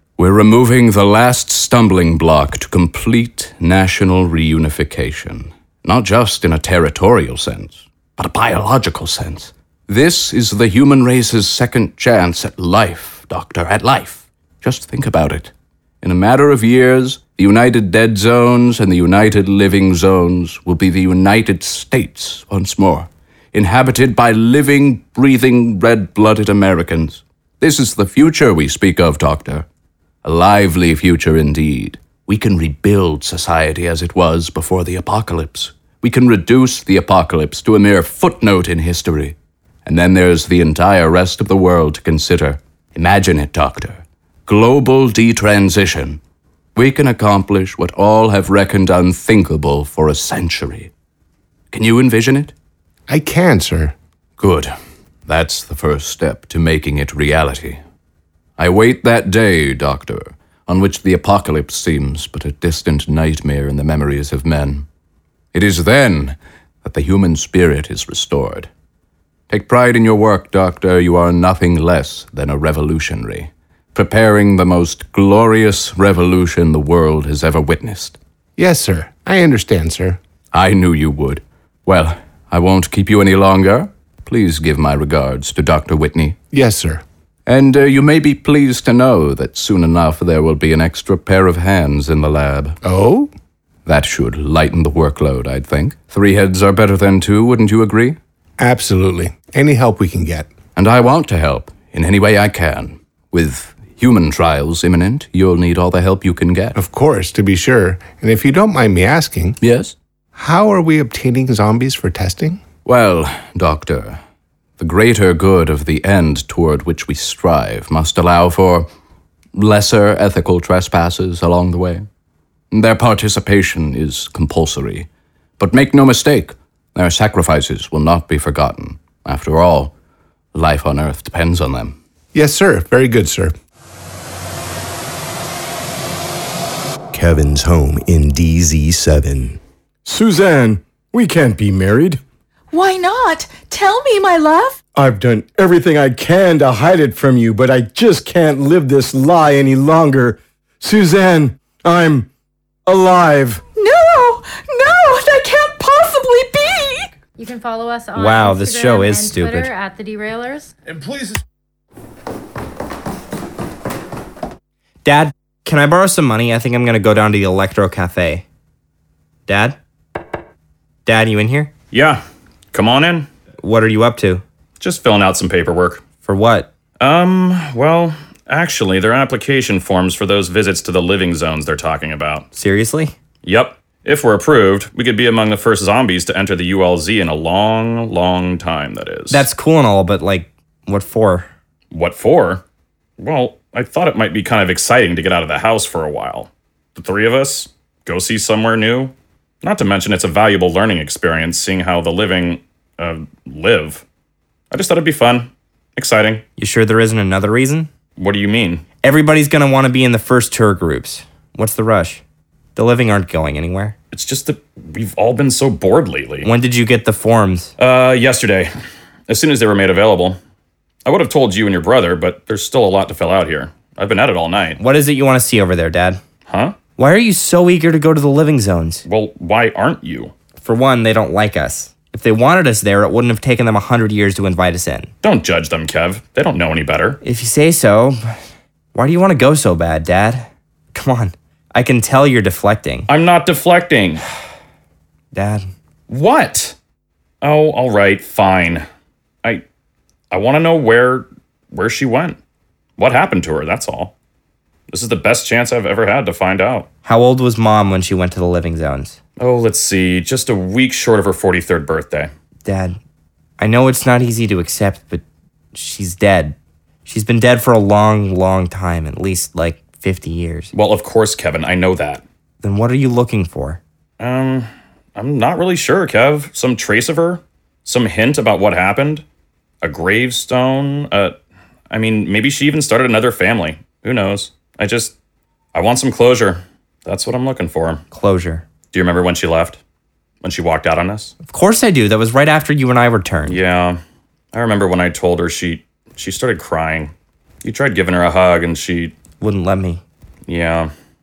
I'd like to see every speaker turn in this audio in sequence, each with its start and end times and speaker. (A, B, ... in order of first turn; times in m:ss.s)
0:00.2-0:29.7 A
0:30.2-0:46.2 A
0:46.8-0:50.9 A
0:51.7-0:52.5 A
0:53.1-0:54.0 B
0:54.4-0:54.7 A
0:55.3-0:57.8 A
0:58.6-1:04.9 A
1:05.5-1:08.7 A
1:09.5-1:18.2 A
1:18.6-1:20.2 B
1:20.5-1:26.4 A
1:26.5-1:27.0 B
1:27.5-1:32.8 A
1:32.8-1:33.3 B
1:33.9-1:38.2 A
1:38.6-1:40.5 B
1:40.8-1:46.8 A
1:46.8-1:49.6 B
1:49.6-1:50.0 A
1:50.4-1:52.6 B
1:52.8-1:54.2 A
1:54.8-1:58.9 A
1:59.6-2:02.0 A
2:02.7-2:05.1 A
2:05.6-2:09.9 A
2:10.5-2:12.0 A
2:12.3-2:13.5 B
2:17.1-2:22.2 C
2:22.7-2:24.8 D
2:24.9-2:32.3 C
2:32.9-2:33.6 C
2:33.8-2:37.1 D
2:37.4-2:40.7 E
2:38.1-2:39.7 F
2:45.0-2:48.4 F
2:49.5-2:49.8 F
2:51.0-2:51.7 F
2:51.9-2:53.3 G
2:53.6-2:54.4 F
2:54.8-2:56.0 G
2:56.2-2:56.7 F
2:57.0-3:02.5 G
3:02.5-3:03.1 F
3:03.4-3:09.5 G
3:09.3-3:11.5 F
3:11.9-3:12.6 G
3:13.2-3:24.0 G
3:24.7-3:26.4 G
3:26.6-3:27.9 F
3:28.2-3:28.8 G
3:29.0-3:32.2 F
3:32.8-3:34.0 F
3:34.1-3:36.5 G
3:36.4-3:37.7 F
3:37.8-3:38.7 G
3:39.3-3:40.4 G
3:41.0-3:44.8 G
3:44.8-3:46.2 F
3:46.5-3:46.8 G
3:47.0-3:49.0 F
3:49.1-3:50.3 G
3:50.6-3:55.1 F
3:55.2-3:57.2 G
3:57.2-3:58.3 F
3:58.9-4:03.1 F
4:03.1-4:04.2 G
4:05.3-4:05.7 F
4:06.1-4:06.8 G
4:07.4-4:08.8 G
4:10.3-4:12.4 G
4:13.0-4:14.1 G
4:14.9-4:16.9 G
4:17.0-4:19.2 F
4:19.4-4:22.3 G
4:22.6-4:23.0 F
4:23.6-4:25.2 F
4:25.7-4:30.7 F
4:30.7-4:32.2 G
4:32.6-4:33.8 F
4:34.2-4:39.2 G
4:39.8-4:41.4 G
4:41.9-4:45.1 G
4:45.7-4:48.0 G
4:48.1-4:48.6 F
4:48.9-4:49.8 G
4:50.4-4:51.3 G
4:51.4-4:53.6 F
4:53.5-4:54.0 G
4:54.5-4:57.1 G
4:57.6-4:59.2 G
4:59.4-5:00.0 F
5:00.5-5:00.9 G